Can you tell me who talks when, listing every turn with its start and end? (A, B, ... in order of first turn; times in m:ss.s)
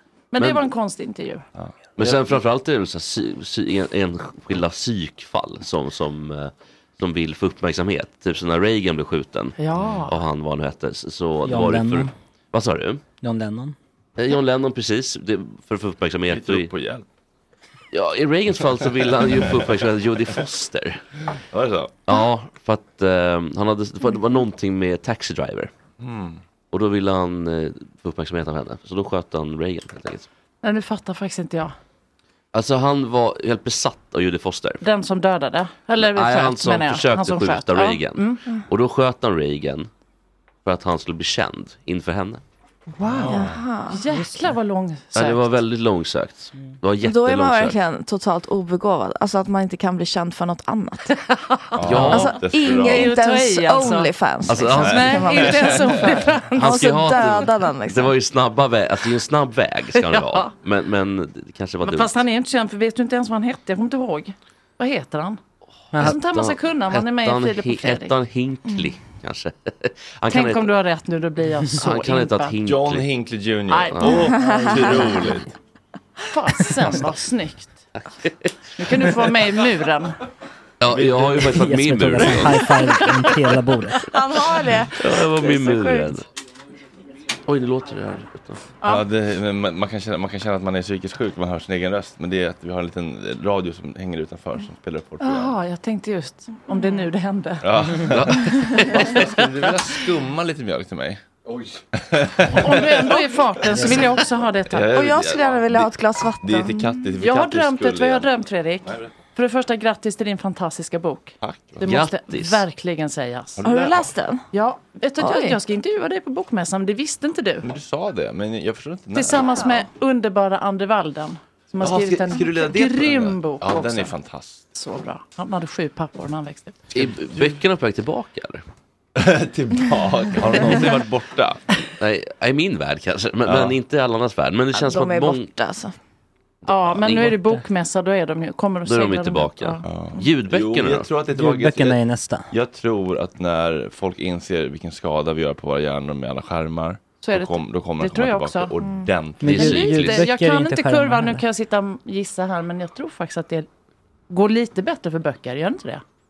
0:00.3-0:01.4 A
0:00.4-0:00.6 B
0:01.6-0:02.4 C
0:02.0-0:13.0 B
0:09.6-0:10.2 A
0:09.8-0:10.0 C
0:11.4-0:12.1 D
0:13.2-0:13.8 D
0:14.2-0:16.7 B
0:16.3-0:17.0 C
0:17.9-0:21.0 B
0:21.5-0:22.0 C
0:22.1-0:25.7 B
0:26.0-0:26.4 C
0:26.7-0:30.3 B
0:30.6-0:31.8 A
0:32.5-0:34.8 B
0:34.8-0:38.4 A
0:36.0-0:39.9 B
0:40.6-0:42.4 B
0:43.0-0:45.6 A
0:43.0-0:43.6 C
0:43.3-0:44.1 E
0:45.1-0:47.8 B
0:47.0-0:51.1 E
0:51.1-0:56.9 A
0:51.8-0:53.1 C
0:51.8-0:52.4 B
0:52.0-0:56.0 E
0:54.5-0:55.6 B
0:54.8-0:56.1 C
0:56.6-1:02.1 B
0:56.6-0:58.1 E
0:59.9-1:00.5 A
1:01.8-1:05.4 A
1:05.9-1:10.7 B
1:06.0-1:08.1 A
1:10.3-1:12.6 A
1:11.7-1:13.1 B
1:12.6-1:15.5 C
1:13.7-1:14.4 A
1:13.9-1:14.2 B
1:14.3-1:15.3 E
1:16.3-1:17.8 A
1:18.0-1:19.1 B
1:18.8-1:20.2 A
1:20.8-1:22.9 B
1:20.9-1:21.6 C
1:21.5-1:24.0 D
1:24.1-1:26.1 E
1:25.0-1:26.2 B
1:27.5-1:28.7 B
1:28.8-1:35.6 C
1:35.2-1:39.8 A
1:37.6-1:48.3 C
1:42.5-1:45.0 A
1:44.9-1:47.1 E
1:47.2-1:53.7 A
1:48.9-1:49.1 C
1:51.4-1:51.9 C
1:51.8-1:52.6 B
1:53.6-1:54.0 C
1:53.6-1:54.5 E
1:54.5-1:57.7 A
1:55.2-1:55.6 E
1:57.6-1:59.5 C
1:59.1-2:04.2 A
2:01.8-2:04.7 C
2:04.7-2:06.8 A
2:07.0-2:07.5 C
2:07.0-2:08.6 B
2:09.2-2:11.6 C
2:12.0-2:15.5 B
2:13.4-2:13.8 C
2:14.7-2:15.9 E
2:16.7-2:19.9 A
2:16.9-2:17.4 B
2:18.8-2:21.1 B
2:19.8-2:22.0 C
2:21.4-2:22.5 D
2:22.5-2:29.6 C
2:27.2-2:28.8 A
2:29.4-2:31.4 D
2:29.4-2:30.3 B
2:29.5-2:33.7 A
2:34.3-2:36.0 A